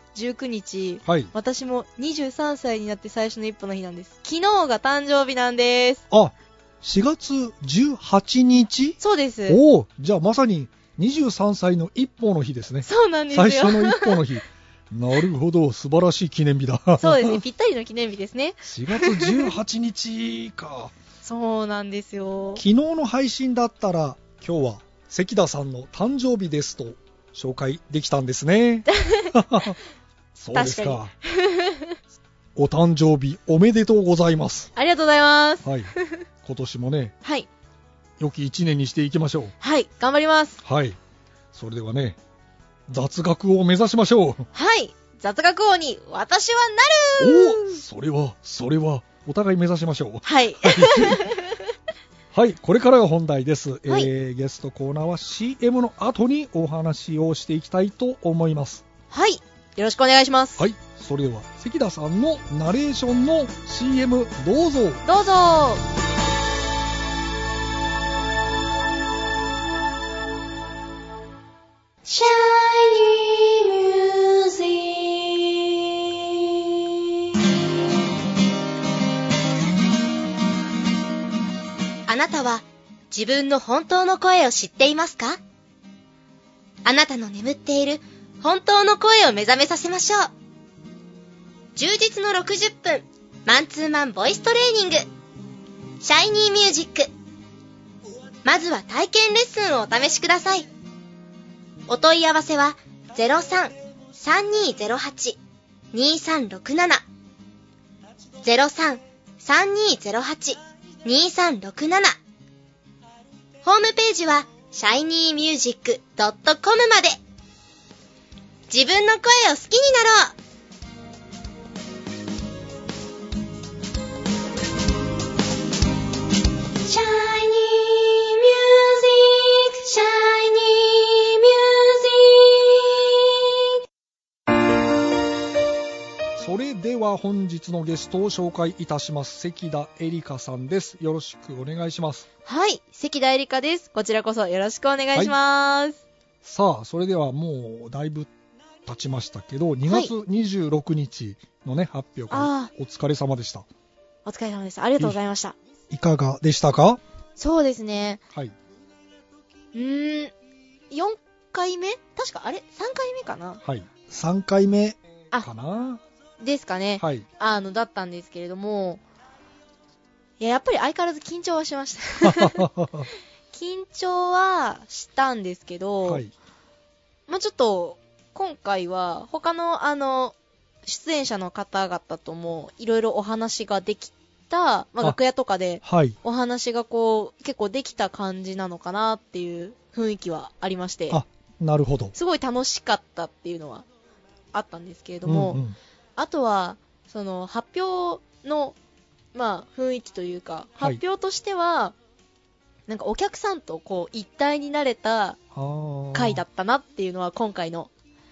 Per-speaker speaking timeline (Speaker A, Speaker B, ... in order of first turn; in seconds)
Speaker A: 0.1-6.0, 9.0-9.6, 12.8-14.2, 17.0-19.5, 21.2-22.6, 28.9-29.7, 30.5-32.0, 34.7-36.2, 37.2-37.5, 39.6-40.6, 44.5-47.8, 50.2-51.6, 59.1-60.7, 65.0-65.8, 72.0-75.7, 82.1-85.4, 86.8-90.3, 91.8-95.0, 96.0-97.1, 98.4-100.7, 101.9-105.4, 105.9-107.0, 108.4-112.1, 113.6-117.2, 118.7-120.3, 126.8-133.0, 142.4-146.0, 149.8-150.1, 152.3-152.7, 154.2-155.6, 157.4-158.2, 159.7-160.3, 160.9-163.6, 166.4-169.0, 170.4-172.7, 173.5-176.2, 177.3-191.2, 192.1-193.8, 194.5-195.6, 196.2-198.8, 199.3-201.9, 202.9-205.4, 206.1-207.9
Speaker B: 1.0-1.3, 6.1-17.4, 18.6-20.9, 22.6-29.8, 30.4-31.1, 32.5-34.7, 35.6-35.9, 36.4-37.1, 38.2-39.5, 40.6-41.0, 41.5-42.2, 42.9-44.5, 47.2-51.3, 52.3-58.8, 60.6-65.0, 136.4-142.2, 146.4-148.3, 148.8-153.7, 155.9-157.0, 163.6-166.0, 167.0-167.2, 172.2-173.1, 176.0-176.3, 185.8-186.2, 191.1-192.1, 195.2-195.8, 205.5-206.4